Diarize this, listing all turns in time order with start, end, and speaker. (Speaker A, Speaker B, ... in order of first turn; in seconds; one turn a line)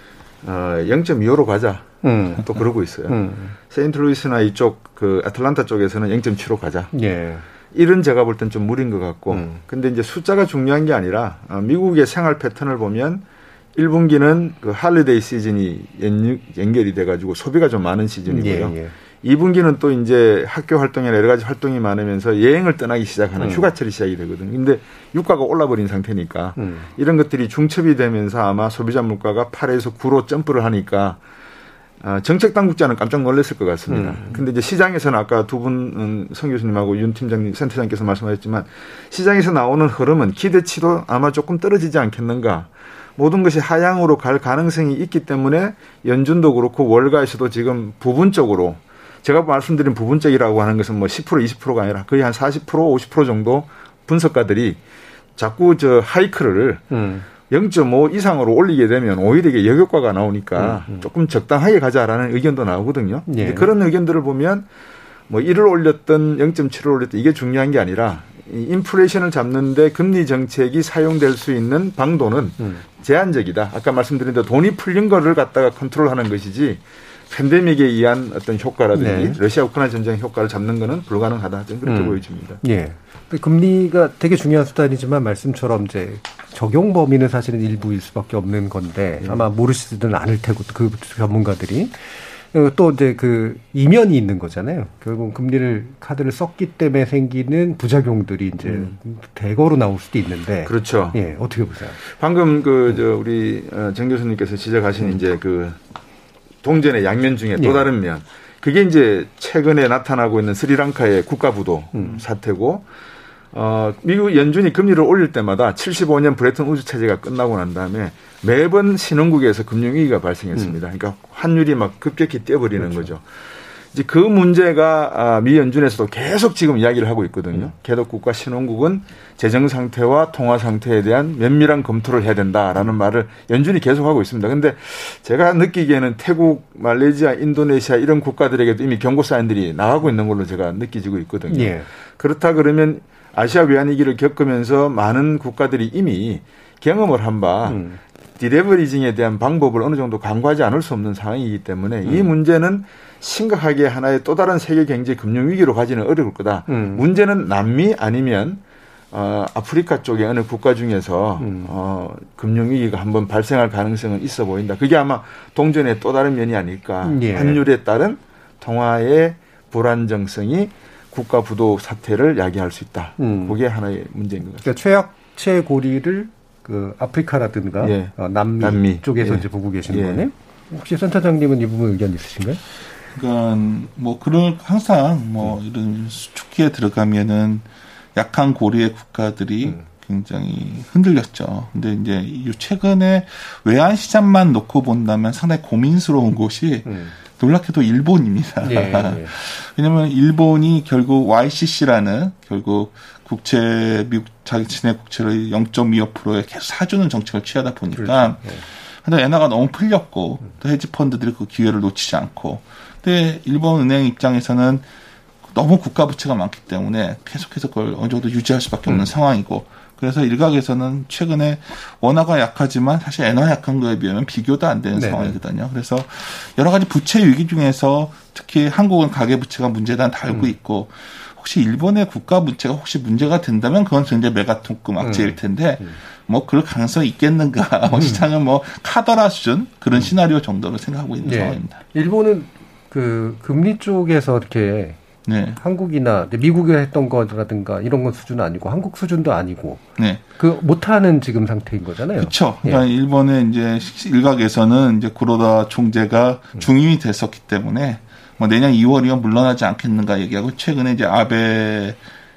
Speaker A: 0.4-6.9
Speaker B: 2.0-2.5
Speaker B: 3.1-3.5
Speaker B: 6.9-7.4
Speaker A: 7.7-13.2
Speaker B: 9.3-9.6
Speaker A: 13.8-31.2
Speaker B: 18.3-18.9
Speaker B: 23.4-23.7
Speaker B: 26.6-26.9
Speaker A: 32.0-54.8
Speaker B: 33.9-34.4
Speaker A: 55.4-64.7
Speaker B: 56.9-57.2
Speaker B: 60.6-61.0
Speaker B: 63.3-63.7
Speaker A: 65.3-82.6
Speaker B: 79.0-79.4
Speaker B: 81.8-102.0
Speaker A: 98.7-98.9
Speaker A: 100.7-101.2
Speaker A: 102.0-105.8
Speaker A: 106.6-112.8
Speaker B: 107.6-107.9
Speaker B: 112.0-112.2
Speaker A: 113.5-123.2
Speaker A: 123.9-147.8
Speaker B: 141.5-141.9
Speaker B: 147.7-148.0
Speaker A: 148.4-158.6
Speaker B: 152.1-152.3
Speaker B: 156.7-157.0
Speaker A: 159.1-174.7
Speaker B: 161.4-161.7
Speaker B: 167.0-167.6
Speaker B: 173.2-173.6
Speaker B: 174.6-182.6
Speaker A: 177.8-180.2
Speaker C: 183.1-214.8
Speaker B: 196.9-197.1
Speaker B: 198.6-199.3
Speaker B: 207.9-208.6
Speaker C: 215.5-241.8
Speaker B: 225.0-225.4
Speaker B: 235.0-236.0
Speaker B: 237.9-238.2
Speaker B: 241.2-245.0
Speaker C: 245.3-245.6
Speaker B: 245.6-249.8
Speaker B: 250.4-252.8
Speaker C: 252.2-262.0